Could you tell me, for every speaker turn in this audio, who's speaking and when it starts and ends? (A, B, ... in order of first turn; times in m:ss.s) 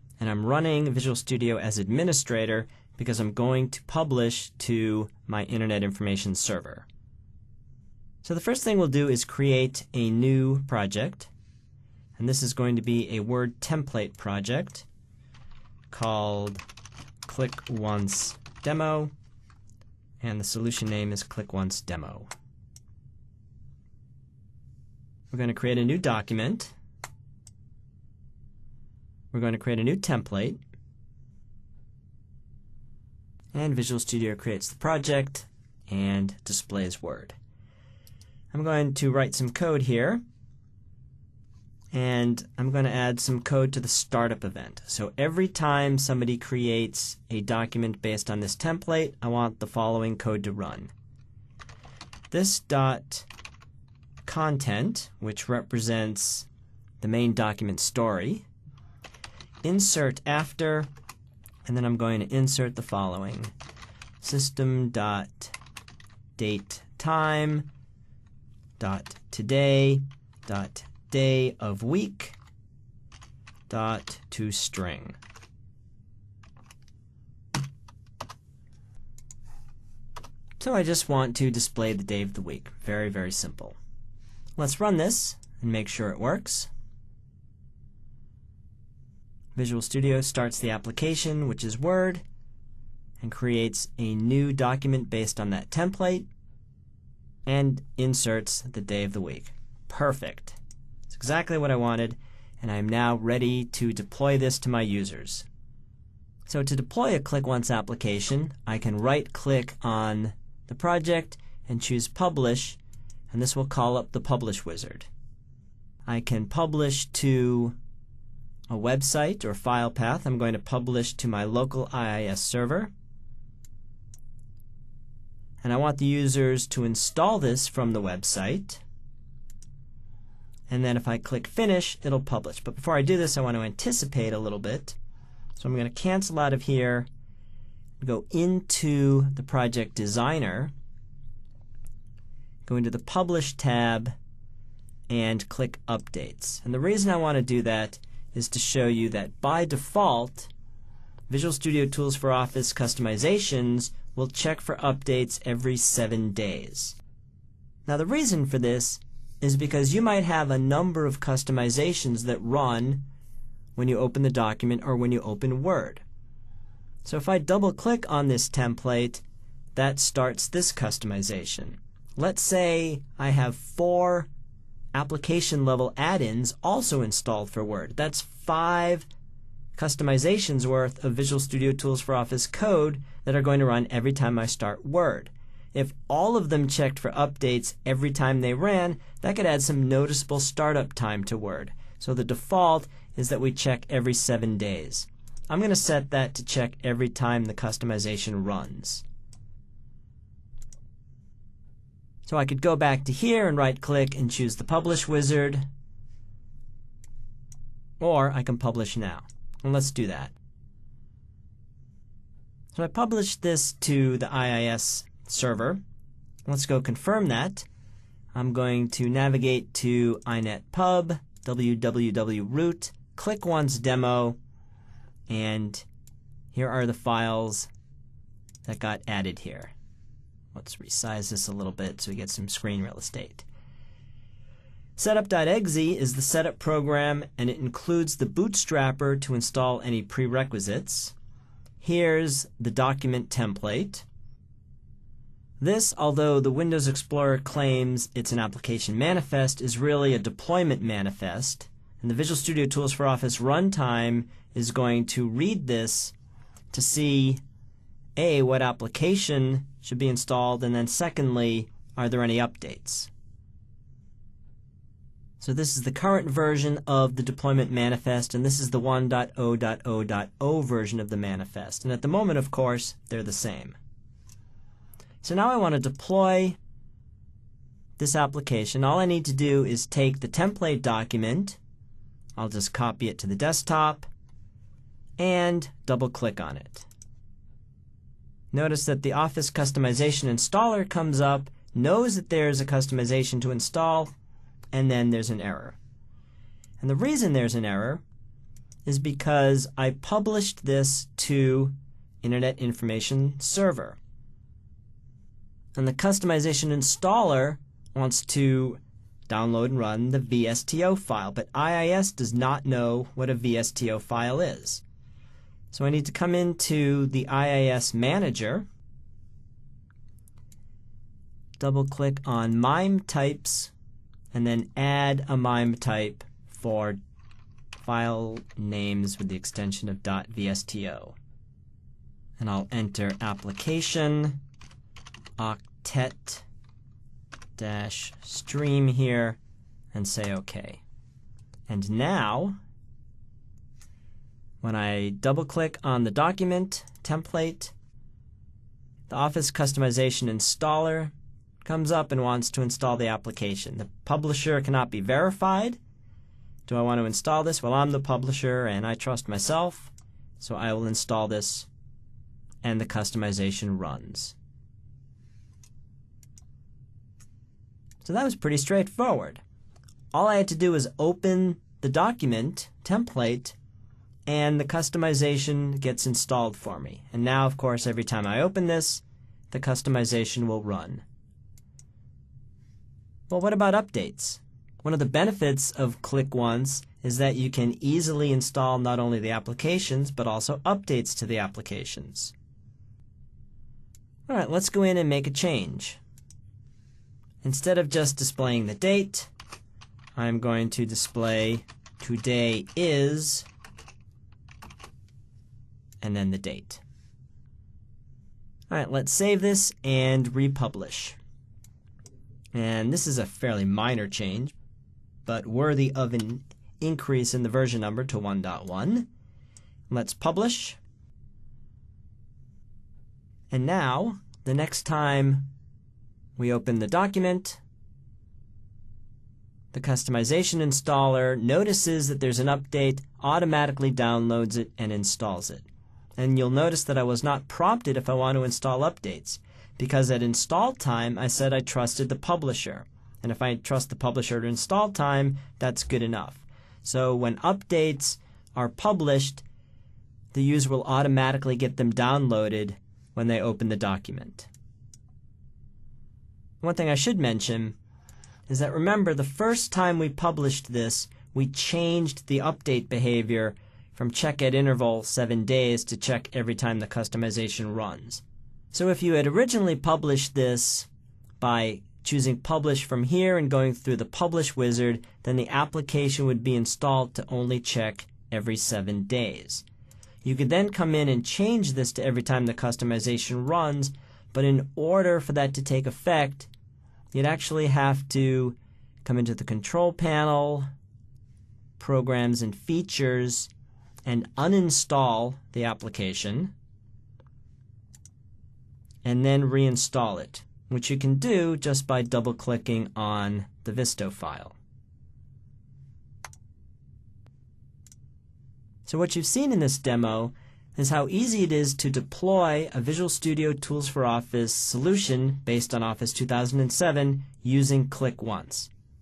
0:00.2-0:06.9 A
0:08.2-0:11.3 A
0:12.2-0:14.9 A
0:15.9-0:16.6 A
0:17.2-0:19.1 A
0:20.2-0:22.3 A
0:25.3-0:26.8 A
0:29.3-0:30.6 A
0:33.5-0:37.4 A
0:38.5-0:40.2 A
0:41.9-0:50.9 A
0:52.3-0:53.3 A
0:54.3-0:56.5 A
0:57.0-0:58.4 A
0:59.6-1:00.9 A
1:01.6-1:03.5 A
1:04.2-1:05.6 A
1:06.4-1:07.7 A
1:08.8-1:12.4 A
1:13.7-1:15.2 A
1:20.6-1:23.8 A
1:24.6-1:26.7 A
1:29.6-1:32.2 A
1:33.2-1:36.3 A
1:37.5-1:45.5 A
1:46.5-1:52.8 A
1:53.3-1:55.1 A
1:56.1-1:57.8 A
1:58.7-2:02.9 A
2:05.6-2:08.8 A
2:10.7-2:15.0 A
2:15.6-2:17.1 A
2:18.0-2:20.7 A
2:22.7-2:24.1 A
2:25.1-2:30.5 A
2:31.3-2:37.0 A
2:37.9-2:43.1 A
2:43.8-2:46.0 A
2:47.0-2:49.2 A
2:49.8-2:54.3 A
2:54.9-2:59.1 A
2:59.8-3:19.0 A
3:22.3-3:25.7 A
3:28.0-3:30.3 A
3:32.7-3:35.8 A
3:36.5-3:37.7 A
3:38.3-3:44.4 A
3:45.3-3:45.9 A
3:46.5-3:47.7 A
3:48.7-3:49.7 A
3:50.5-3:53.5 A
3:55.0-4:01.2 A
4:01.8-4:04.1 A
4:05.6-4:16.1 A
4:16.7-4:17.4 A
4:18.2-4:23.1 A
4:25.4-4:33.8 A
4:35.2-4:36.6 A
4:38.0-4:41.6 A
4:42.4-4:44.1 A
4:45.2-4:46.9 A
4:48.5-4:54.1 A
4:54.7-4:55.8 A
4:56.8-4:58.0 A
4:58.8-5:04.0 A
5:05.8-5:14.8 A
5:15.7-5:18.7 A
5:21.6-5:23.7 A
5:24.3-5:27.0 A
5:27.8-5:31.2 A
5:32.4-5:34.4 A
5:35.4-5:36.4 A
5:37.6-5:39.4 A
5:39.9-5:40.8 A
5:41.7-5:42.6 A
5:44.6-5:47.7 A
5:49.1-5:55.8 A
5:56.7-6:01.7 A
6:02.6-6:04.4 A
6:08.0-6:09.4 A
6:10.1-6:13.6 A
6:14.3-6:21.0 A
6:23.3-6:32.3 A
6:34.3-6:36.0 A
6:37.4-6:39.3 A
6:40.2-6:43.5 A
6:46.0-6:46.8 A
6:48.7-6:51.2 A
6:52.5-6:54.6 A
6:55.2-6:59.1 A
6:59.9-7:00.8 A
7:03.5-7:05.5 A
7:06.4-7:07.6 A
7:09.7-7:15.7 A
7:16.2-7:29.4 A
7:30.3-7:34.5 A
7:36.6-7:37.8 A
7:38.5-7:50.9 A
7:51.4-7:59.6 A
8:00.2-8:06.5 A
8:07.1-8:10.7 A
8:11.8-8:13.5 A
8:14.1-8:16.5 A
8:19.0-8:24.6 A
8:28.9-8:38.7 A